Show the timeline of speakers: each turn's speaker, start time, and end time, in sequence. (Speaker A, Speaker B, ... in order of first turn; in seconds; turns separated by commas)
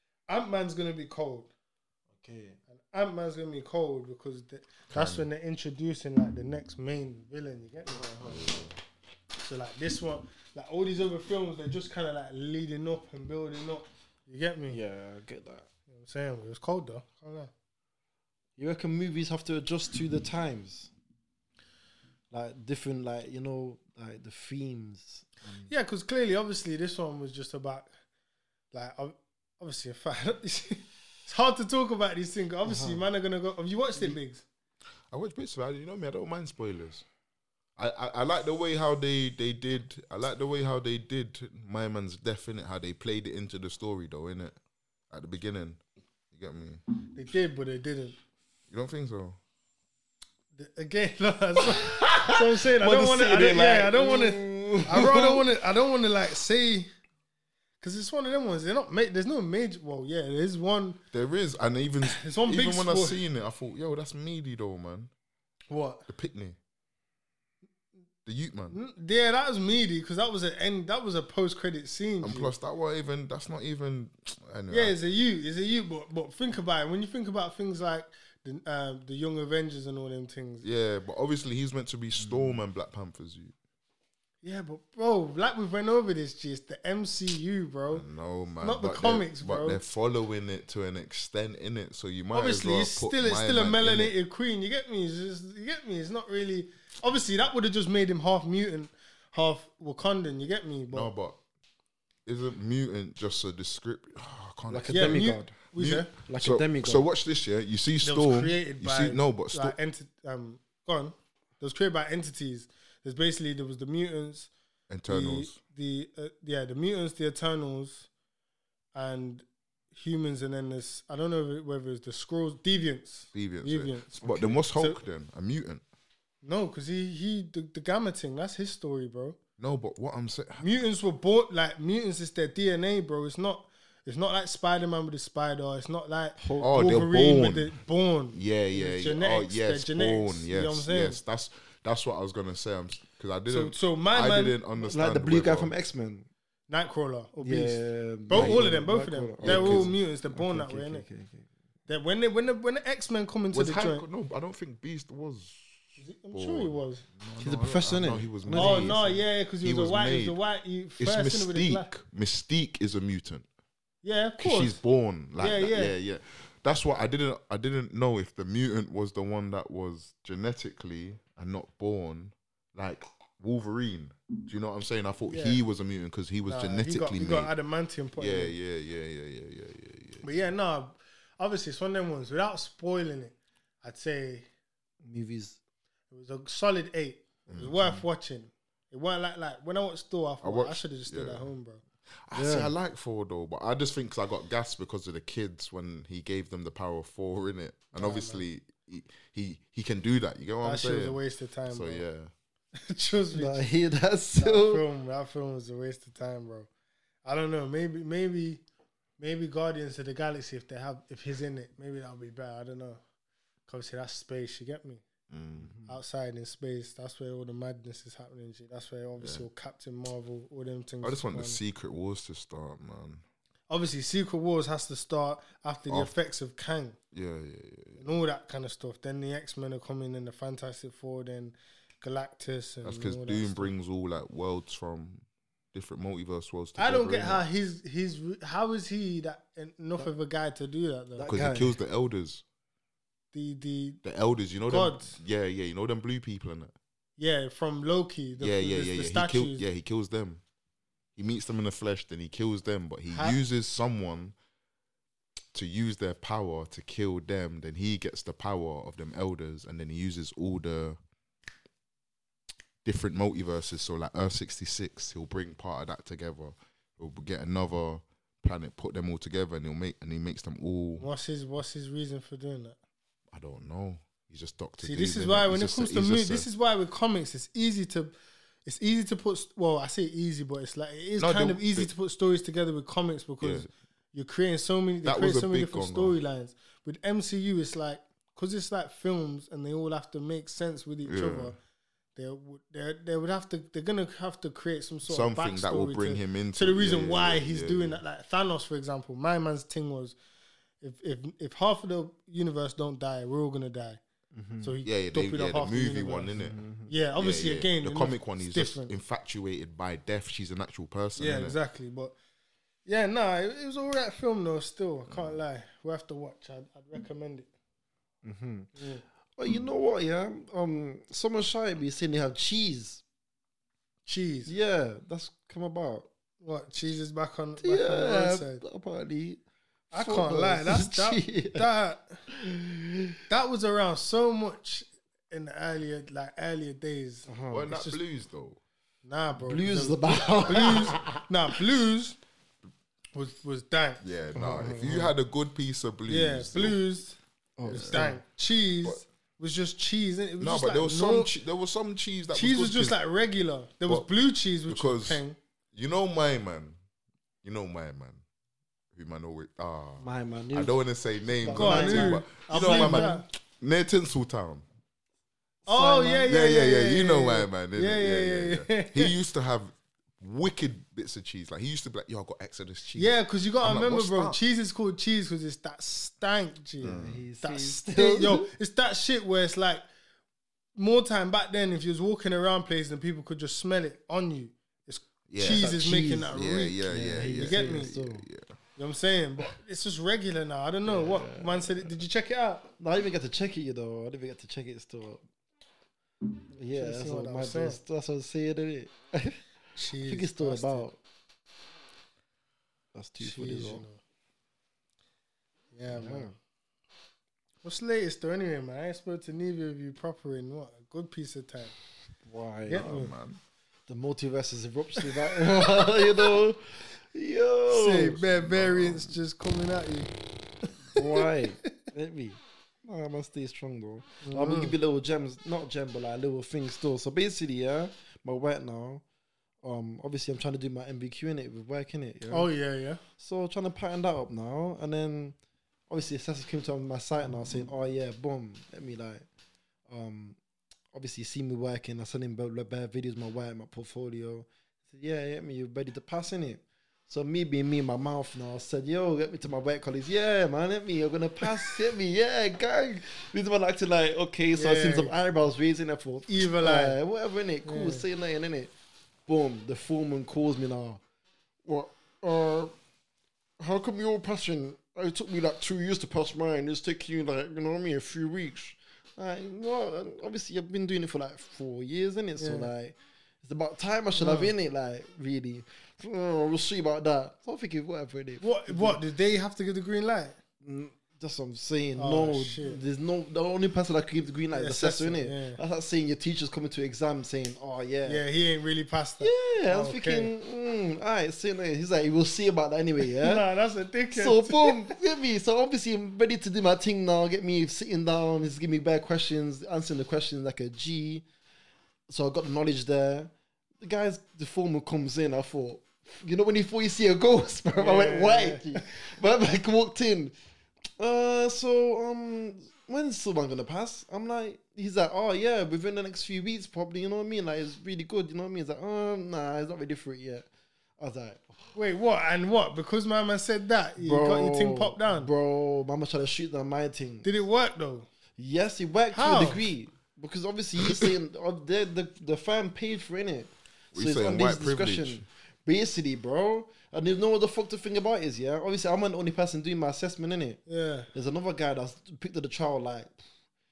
Speaker A: 0.3-1.5, Speaker B: 2.1-2.6, Speaker A: 2.7-8.1, Speaker C: 4.9-5.3, Speaker B: 7.9-8.6, Speaker C: 8.2-8.8, Speaker A: 9.4-14.8, Speaker B: 14.7-15.7, Speaker A: 15.9-17.5, Speaker B: 18.6-20.9, Speaker B: 22.3-25.7, Speaker A: 25.7-27.9, Speaker A: 28.7-34.4, Speaker B: 32.6-33.0, Speaker C: 35.1-37.0, Speaker C: 37.8-44.6, Speaker C: 45.1-46.8, Speaker A: 47.1-48.2, Speaker C: 48.7-49.4, Speaker A: 50.5-56.9, Speaker B: 51.7-55.4, Speaker A: 57.8-61.0, Speaker C: 61.1-65.1, Speaker A: 62.0-63.2, Speaker A: 65.7-66.1, Speaker C: 66.1-66.6, Speaker C: 68.2-68.8, Speaker A: 68.7-72.5, Speaker C: 72.2-74.9, Speaker A: 74.7-80.7, Speaker C: 80.6-83.5, Speaker A: 84.4-88.0, Speaker C: 87.9-94.1, Speaker A: 88.6-89.8, Speaker A: 92.3-101.1, Speaker C: 100.9-101.4, Speaker C: 102.2-109.8, Speaker B: 104.7-107.1, Speaker A: 104.9-106.1, Speaker A: 108.0-114.5, Speaker C: 114.9-115.6, Speaker A: 115.1-118.1, Speaker A: 119.0-125.0, Speaker C: 123.3-125.8, Speaker B: 124.2-124.5, Speaker A: 126.4-129.4, Speaker C: 129.6-130.7, Speaker A: 130.6-141.2, Speaker B: 136.4-136.8, Speaker C: 136.6-137.7, Speaker C: 138.3-145.7, Speaker A: 143.5-144.6, Speaker B: 144.8-146.3, Speaker A: 146.7-151.1, Speaker B: 147.4-151.5, Speaker C: 148.3-148.7, Speaker C: 149.4-149.9, Speaker A: 151.9-154.1, Speaker C: 153.5-160.4, Speaker A: 156.0-157.0, Speaker B: 157.4-159.2, Speaker A: 158.6-161.9, Speaker C: 161.0-163.4, Speaker A: 164.0-164.8, Speaker C: 164.4-177.5, Speaker A: 165.4-165.9, Speaker A: 175.3-175.6, Speaker A: 176.5-178.5, Speaker C: 178.2-180.5, Speaker A: 180.2-184.5, Speaker B: 185.0-185.6, Speaker A: 186.1-191.8, Speaker C: 187.5-188.1, Speaker C: 190.4-191.5, Speaker C: 192.3-202.3, Speaker B: 192.3-192.7, Speaker A: 197.9-198.4, Speaker A: 200.6-202.0, Speaker A: 202.8-203.6, Speaker B: 203.3-204.8, Speaker A: 204.4-206.7, Speaker A: 207.2-208.6, Speaker A: 209.2-213.0, Speaker A: 213.7-215.0, Speaker C: 215.3-215.7, Speaker B: 215.6-215.9, Speaker A: 215.9-221.6, Speaker C: 219.2-219.5, Speaker C: 221.0-223.2, Speaker A: 223.7-227.0, Speaker C: 227.1-228.1, Speaker A: 228.0-233.7, Speaker C: 232.8-237.4, Speaker A: 236.8-241.3, Speaker B: 241.2-241.8, Speaker C: 241.3-242.4, Speaker A: 243.3-244.0, Speaker C: 244.0-246.7, Speaker A: 244.7-245.2, Speaker A: 247.2-249.6, Speaker C: 248.4-250.4, Speaker C: 251.2-254.3, Speaker A: 253.1-253.4, Speaker C: 255.5-261.0, Speaker C: 262.8-271.1, Speaker A: 271.0-272.8, Speaker C: 273.3-276.5, Speaker A: 274.8-291.6, Speaker C: 281.2-281.9, Speaker C: 283.4-283.7, Speaker C: 285.0-286.2, Speaker C: 291.1-291.6, Speaker A: 292.2-300.2, Speaker C: 295.1-298.0, Speaker A: 300.8-304.0, Speaker B: 304.3-304.8, Speaker A: 304.6-306.3, Speaker C: 304.9-306.6, Speaker B: 306.4-306.9, Speaker A: 306.9-308.9, Speaker C: 307.2-311.6, Speaker A: 311.2-312.2, Speaker A: 312.9-317.5, Speaker C: 315.1-315.4, Speaker B: 318.2-318.8, Speaker A: 318.8-319.0, Speaker B: 319.4-323.0, Speaker A: 324.1-324.5, Speaker B: 324.5-326.1, Speaker A: 326.4-328.6, Speaker B: 327.6-331.7, Speaker A: 329.9-332.2, Speaker B: 332.3-333.2, Speaker A: 333.3-338.0, Speaker B: 337.3-337.7, Speaker C: 337.5-338.6, Speaker A: 339.0-342.2, Speaker B: 339.4-341.2, Speaker A: 343.1-344.0, Speaker C: 344.0-346.8, Speaker B: 344.4-345.1, Speaker A: 346.1-347.2, Speaker B: 347.6-348.2, Speaker C: 347.7-348.1, Speaker A: 347.7-351.3, Speaker C: 350.4-353.0, Speaker A: 352.3-355.4, Speaker C: 354.7-355.2, Speaker C: 355.7-356.8, Speaker C: 357.4-358.2, Speaker C: 358.9-364.6, Speaker B: 360.0-360.8, Speaker B: 361.4-363.2, Speaker A: 361.5-363.2, Speaker B: 365.7-366.3, Speaker A: 365.7-369.1, Speaker C: 366.3-374.4, Speaker A: 373.0-379.8, Speaker B: 376.8-378.5, Speaker C: 376.8-377.2, Speaker A: 380.8-388.0, Speaker C: 385.3-385.7, Speaker B: 385.5-388.2, Speaker C: 386.3-388.5, Speaker A: 388.8-392.7, Speaker B: 390.9-391.9, Speaker B: 392.8-395.2, Speaker B: 396.5-399.4, Speaker A: 396.7-397.8, Speaker A: 399.8-400.9, Speaker B: 400.0-401.0, Speaker B: 402.9-403.8, Speaker A: 403.2-404.0, Speaker A: 405.7-406.3, Speaker B: 405.9-406.3, Speaker A: 407.6-411.7, Speaker B: 412.2-412.9, Speaker A: 412.7-413.1, Speaker C: 412.7-413.4, Speaker B: 413.9-416.6, Speaker A: 415.0-416.3, Speaker B: 417.1-418.2, Speaker A: 417.7-420.1, Speaker C: 418.3-419.1, Speaker B: 420.9-429.0, Speaker A: 420.9-421.2, Speaker A: 424.2-424.8, Speaker B: 429.6-432.5, Speaker A: 432.3-433.0, Speaker B: 433.2-435.4, Speaker B: 435.9-439.2, Speaker B: 439.9-440.4, Speaker B: 440.9-458.7, Speaker A: 454.5-455.1, Speaker A: 456.3-457.0, Speaker A: 457.6-458.0, Speaker B: 459.3-461.0, Speaker B: 461.6-462.7, Speaker B: 463.6-479.0, Speaker A: 472.4-472.7, Speaker A: 474.2-474.5, Speaker A: 478.4-480.4, Speaker B: 480.6-488.2, Speaker A: 482.0-482.8, Speaker A: 484.5-485.6, Speaker A: 488.0-490.3, Speaker B: 489.2-493.5, Speaker A: 493.1-494.9, Speaker B: 494.1-501.2, Speaker B: 502.1-510.3, Speaker A: 507.7-508.8, Speaker B: 511.0-520.5, Speaker B: 521.0-521.6, Speaker A: 521.8-525.3, Speaker B: 524.0-527.3, Speaker A: 527.2-528.1, Speaker B: 528.4-540.6, Speaker A: 529.1-529.6, Speaker C: 533.9-535.2, Speaker A: 540.7-541.1, Speaker B: 541.1-543.1